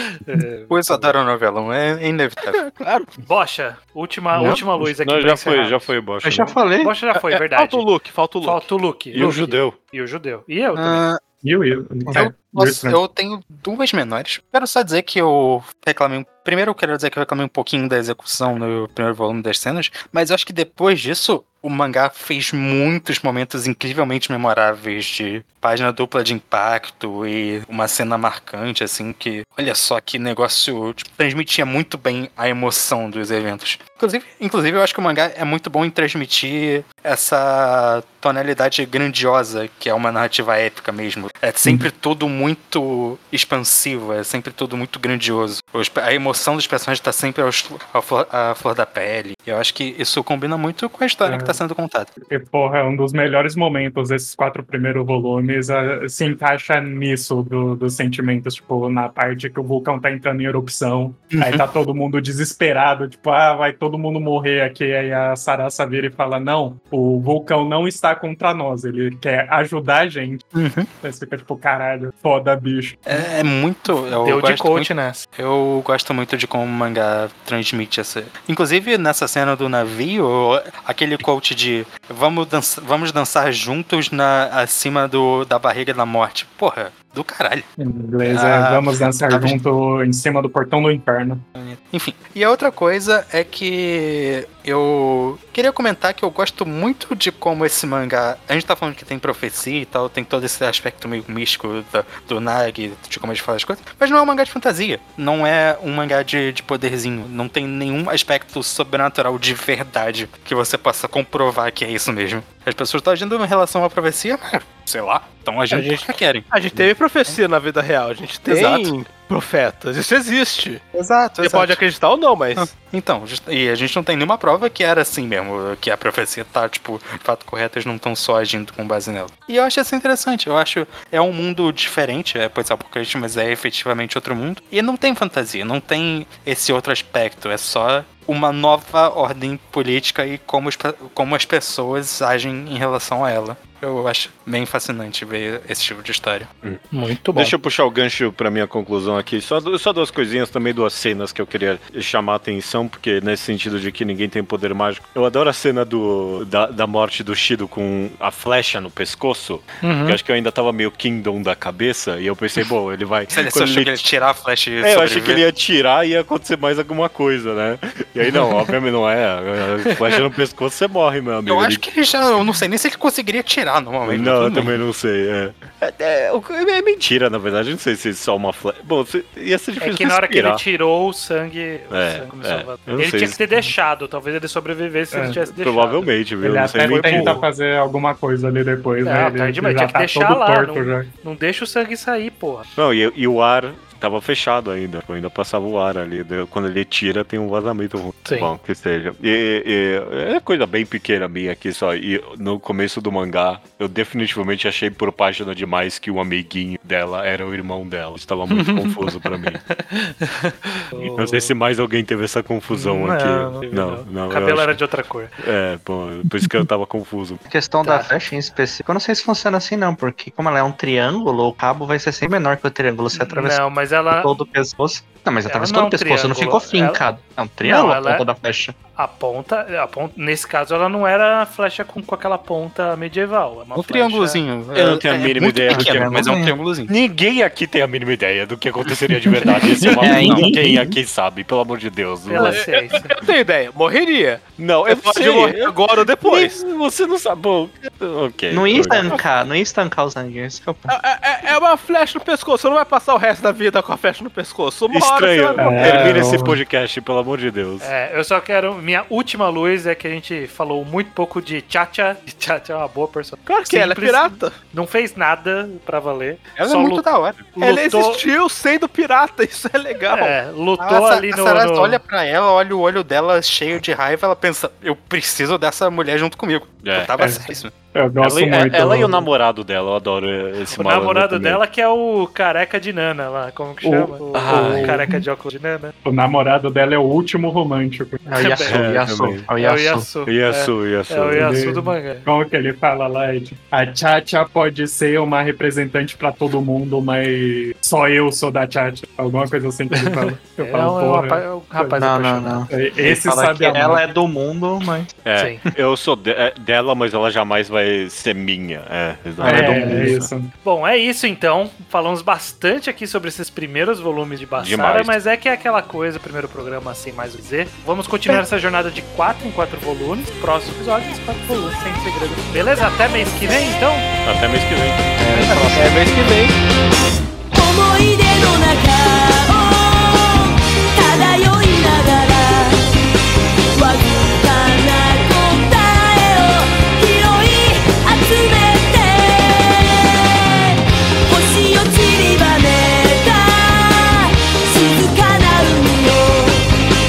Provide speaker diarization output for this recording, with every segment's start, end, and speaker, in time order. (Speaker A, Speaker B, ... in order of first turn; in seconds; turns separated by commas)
Speaker A: 0.1-1.1, Speaker B: 0.7-2.6, Speaker C: 2.5-3.1, Speaker A: 3.2-5.9, Speaker D: 4.3-4.6, Speaker E: 5.0-6.6, Speaker D: 6.2-6.9, Speaker A: 6.8-7.9, Speaker C: 7.1-8.7, Speaker A: 8.4-11.0, Speaker E: 9.1-9.8, Speaker B: 10.8-11.2, Speaker F: 11.4-13.0, Speaker B: 12.1-52.1, Speaker F: 51.2-51.6, Speaker F: 52.2-70.4, Speaker B: 61.3-61.6, Speaker B: 70.5-70.9, Speaker F: 71.0-73.0, Speaker B: 73.1-87.6, Speaker A: 74.2-75.2, Speaker F: 87.8-91.4, Speaker B: 88.2-89.6, Speaker B: 91.5-117.4, Speaker C: 115.7-120.8, Speaker B: 118.5-118.9, Speaker B: 120.9-121.8, Speaker C: 121.4-122.7, Speaker B: 122.6-146.5, Speaker A: 146.9-147.5, Speaker E: 147.3-164.0, Speaker A: 159.8-160.2, Speaker B: 163.3-165.4, Speaker E: 164.8-171.8, Speaker B: 171.5-174.8, Speaker E: 174.0-180.6, Speaker A: 179.8-186.1, Speaker E: 181.9-183.4, Speaker F: 185.1-185.4, Speaker E: 185.4-187.4, Speaker F: 186.4-191.1, Speaker A: 186.9-187.4, Speaker A: 189.0-192.7, Speaker E: 192.8-209.6, Speaker A: 198.2-198.5, Speaker A: 208.5-208.9, Speaker A: 209.7-211.5, Speaker E: 211.2-214.8, Speaker A: 212.7-215.3, Speaker E: 215.4-217.4, Speaker D: 217.5-228.7, Speaker A: 217.8-218.1, Speaker A: 223.2-224.3, Speaker A: 225.5-227.0, Speaker A: 227.6-228.2, Speaker A: 229.0-234.4, Speaker B: 233.7-236.9, Speaker E: 234.7-236.3, Speaker D: 235.7-236.5, Speaker E: 236.9-242.6, Speaker F: 239.8-240.5, Speaker D: 240.0-240.9, Speaker A: 242.3-243.1, Speaker C: 242.3-246.6, Speaker E: 244.6-249.2, Speaker D: 248.5-250.9, Speaker C: 250.9-256.3, Speaker E: 254.9-257.9, Speaker F: 255.6-256.6, Speaker A: 255.6-256.0, Speaker A: 257.8-268.2, Speaker C: 263.4-264.5, Speaker B: 266.6-267.4, Speaker C: 267.6-270.4, Speaker A: 270.1-272.0, Speaker B: 270.8-277.7, Speaker E: 276.8-277.1, Speaker F: 277.9-279.2, Speaker E: 278.2-281.6, Speaker A: 280.7-285.9, Speaker F: 283.8-285.2, Speaker E: 284.3-285.0, Speaker F: 286.0-288.2, Speaker D: 288.2-290.1, Speaker A: 288.3-288.8, Speaker E: 288.7-289.4, Speaker A: 289.6-292.3, Speaker E: 290.2-291.5, Speaker F: 291.3-302.0, Speaker A: 299.9-302.8, Speaker D: 302.0-305.1, Speaker F: 302.7-304.0, Speaker E: 305.2-310.3, Speaker D: 309.4-310.2, Speaker F: 309.4-310.5, Speaker A: 309.5-310.1, Speaker A: 310.6-324.1, Speaker E: 314.6-315.2, Speaker E: 324.2-326.5, Speaker D: 325.1-326.1, Speaker G: 327.5-332.9, Speaker G: 333.7-340.7, Speaker G: 341.3-346.6